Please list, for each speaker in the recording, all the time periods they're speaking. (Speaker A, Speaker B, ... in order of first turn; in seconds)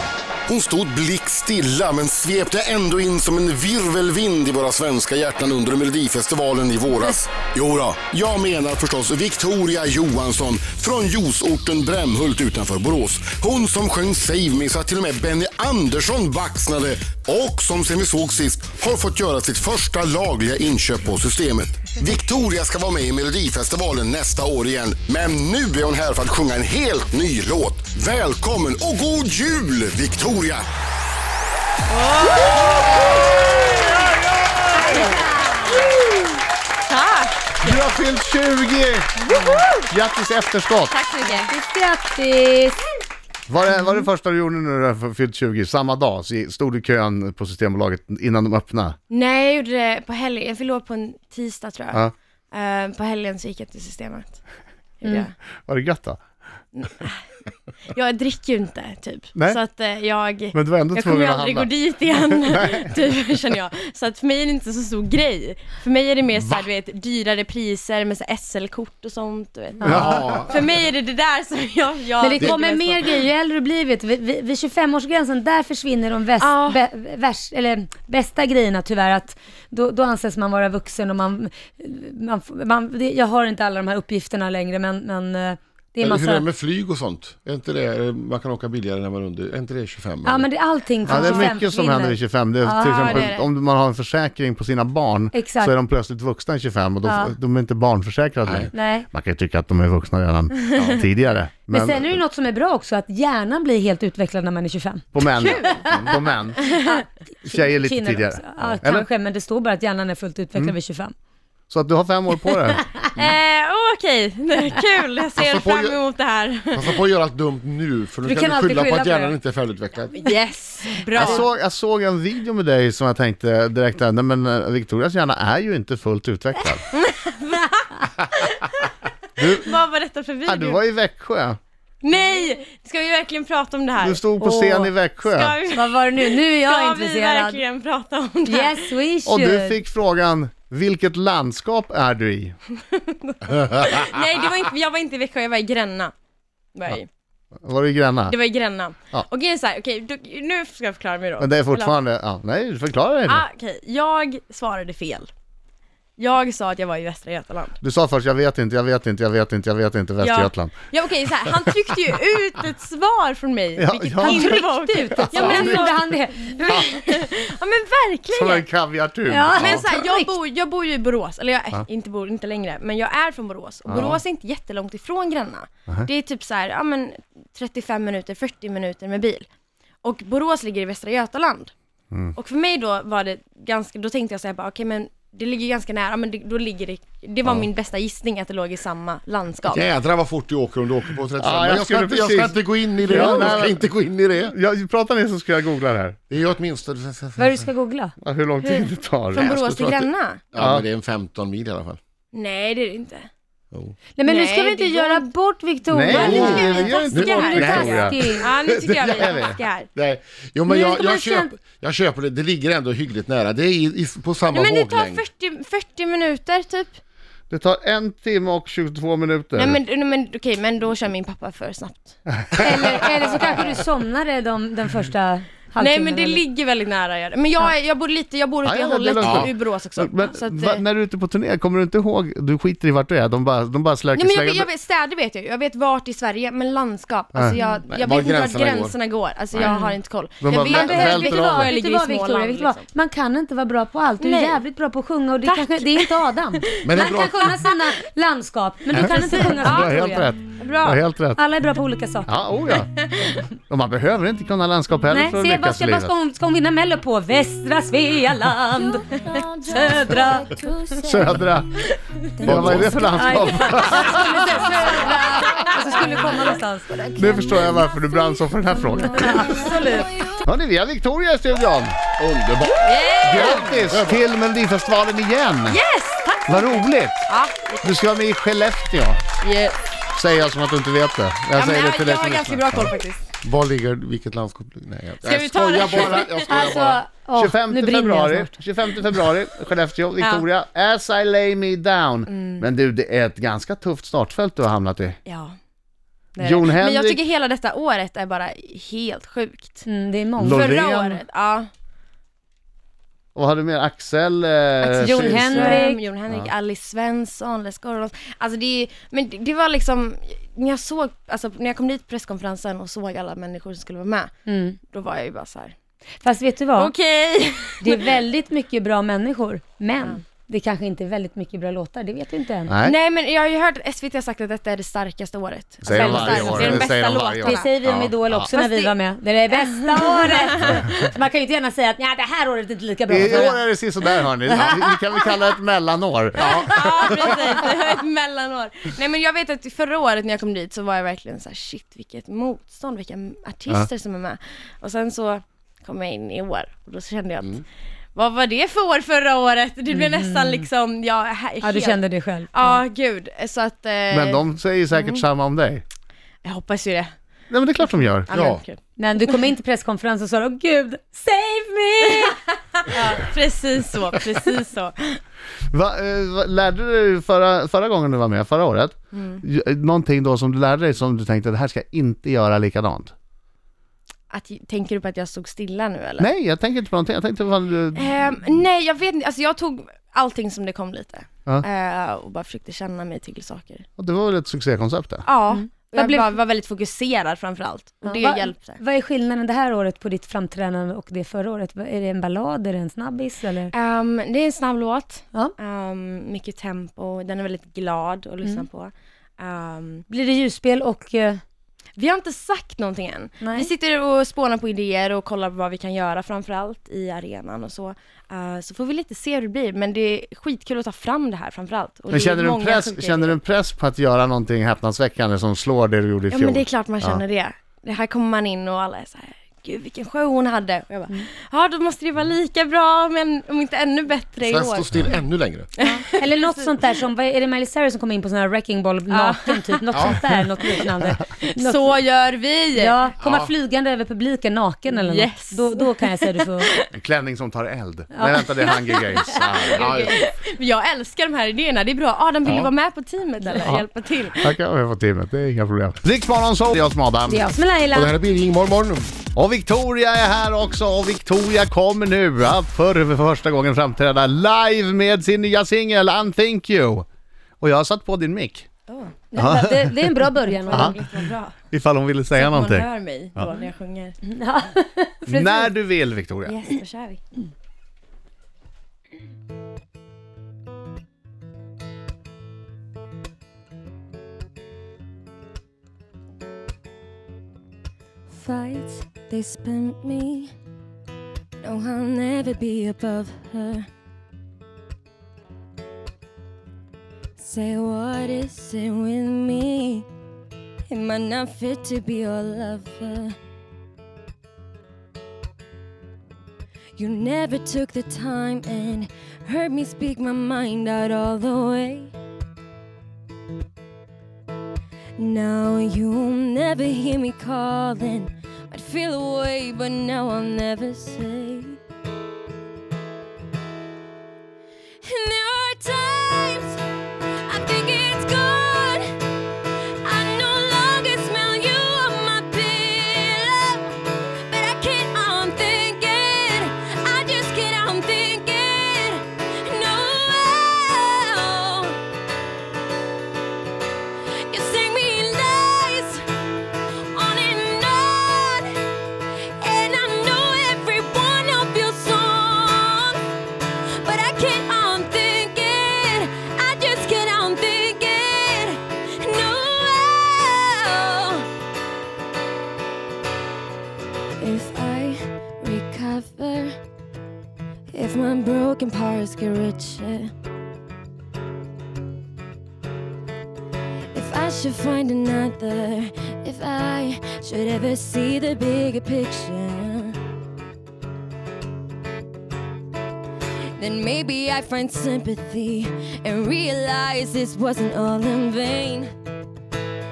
Speaker A: 0.5-30.7
Speaker B: 31.9-33.8, 36.8-37.8, 39.3-39.7, 40.9-41.5, 49.1-54.4, 55.0-55.3, 56.7-57.2, 57.9-73.1, 76.4-76.8, 91.1-91.6, 92.7-93.5, 105.2-106.0, 106.6-107.0, 113.2-117.0, 120.1-121.5, 126.9-130.8, 132.0-134.2, 135.2-138.9, 143.2-146.1, 146.8-147.1, 148.3-151.9, 153.3-155.3, 156.2-157.8, 160.2-168.7, 169.5-179.5, 180.0-181.7, 182.3-189.8, 193.2-193.6, 198.6-200.4, 202.3-203.3, 204.2-205.3, 206.1-209.9, 214.5-217.0, 219.6-222.2, 225.8-230.8, 234.2-242.9, 244.2-244.6, 245.4-246.7, 249.0-251.0, 252.7-253.4, 259.3-261.5, 262.4-268.4, 268.9-270.4, 272.8-273.7, 275.7-277.9, 279.4-279.8, 281.5-283.3, 285.2-286.6, 290.2-290.4, 292.3-292.6, 295.3-295.6, 296.4-299.9, 300.4-301.7, 304.8-314.3, 314.9-315.8, 316.8-318.1, 322.8-327.7, 328.5-329.0, 329.5-330.8, 333.2-333.6, 336.4-347.6, 348.1-355.2, 356.4-357.1, 357.8-358.8, 362.1-365.2, 369.1-369.4, 374.3-376.3, 377.9-383.9, 385.2-388.8, 393.7-400.1, 402.0-413.4, 416.3-425.2, 425.8-426.7, 429.1-430.9, 431.4-433.1, 434.9-436.9, 439.3-444.4, 458.9-459.1, 460.4-461.5, 462.3-464.2, 466.5-467.2, 478.3-480.5, 481.6-483.9, 487.4-490.1, 490.9-493.4, 497.0-502.1, 505.2-511.8, 515.0-516.8, 517.5-519.2, 520.0-532.0, 534.5-536.3, 537.1-538.9, 539.6-543.3, 544.0-551.5, 554.4-556.8, 557.9-560.3, 564.1-570.2, 573.8-579.1
Speaker C: 33.0-33.6, 37.6-41.0, 43.5-49.0, 55.7-56.2, 60.5-61.7, 91.1-102.2, 105.1-106.7, 107.5-109.1, 111.7-112.9, 121.2-126.8, 129.4-129.7, 130.5-131.6, 134.0-135.6, 139.3-142.6, 147.6-148.3, 151.4-153.4, 157.8-160.7, 163.8-165.8, 168.3-169.8, 191.4-193.9, 194.5-196.2, 198.2-199.5, 200.6-200.8, 205.9-209.6, 217.5-219.8, 222.3-222.7, 228.6-234.7, 240.4-241.8, 249.0-251.4, 252.3-252.9, 253.7-256.1, 261.0-261.8, 262.4-264.5, 267.1-269.6, 270.4-272.0, 273.3-275.8, 276.5-277.3, 277.8-279.2, 280.1-282.9, 287.4-295.2, 296.4-297.2, 300.4-301.2, 303.4-305.8, 322.7-322.9, 325.8-327.7, 328.2-328.6, 333.1-337.1, 354.1-355.8, 357.5-358.3, 365.7-373.1, 376.2-378.1, 384.0-385.3, 412.1-417.2, 436.9-439.9, 444.4-447.4, 449.4-457.1, 457.6-458.7, 459.4-460.0, 460.7-461.0, 461.7-463.6, 465.3-466.6
Speaker D: 34.7-35.9, 39.3-39.6, 41.2-42.9, 69.8-70.2, 72.2-86.5, 90.2-93.3, 95.3-95.7, 97.0-97.3, 98.7-99.1, 101.7-111.1, 118.2-119.4, 134.4-134.9, 135.7-137.6, 138.4-139.8, 164.2-167.2, 169.3-170.3, 193.2-193.4, 197.4-198.2, 204.2-208.5, 210.7-211.5, 222.6-226.4, 239.6-240.0, 240.7-250.3, 251.4-252.3, 255.1-260.7, 262.6-267.2, 269.0-270.2, 286.5-288.6, 299.9-300.7, 305.0-306.0, 314.5-314.8, 316.2-316.9, 317.8-322.7, 325.9-333.6, 334.5-335.3, 336.5-337.1, 349.9-350.7, 351.6-352.8, 359.0-362.4, 385.5-386.4, 388.0-393.7, 400.1-401.4, 403.4-403.7, 425.8-431.9, 432.7-436.7, 438.1-440.0, 447.3-448.1, 459.3-461.1, 464.3-465.8
Speaker E: 69.9-70.5, 86.0-90.5, 98.5-98.7, 115.4-116.0, 116.7-120.2, 173.9-174.2, 189.7-194.6, 196.3-197.5, 199.4-202.0, 206.2-206.6, 207.1-208.3, 209.9-215.2, 229.2-229.5, 237.9-239.0, 246.8-247.5, 262.4-263.1, 272.2-274.2, 283.4-287.0, 327.8-328.1, 358.3-358.6, 424.4-425.7, 429.9-430.2, 439.7-440.2, 447.9-449.1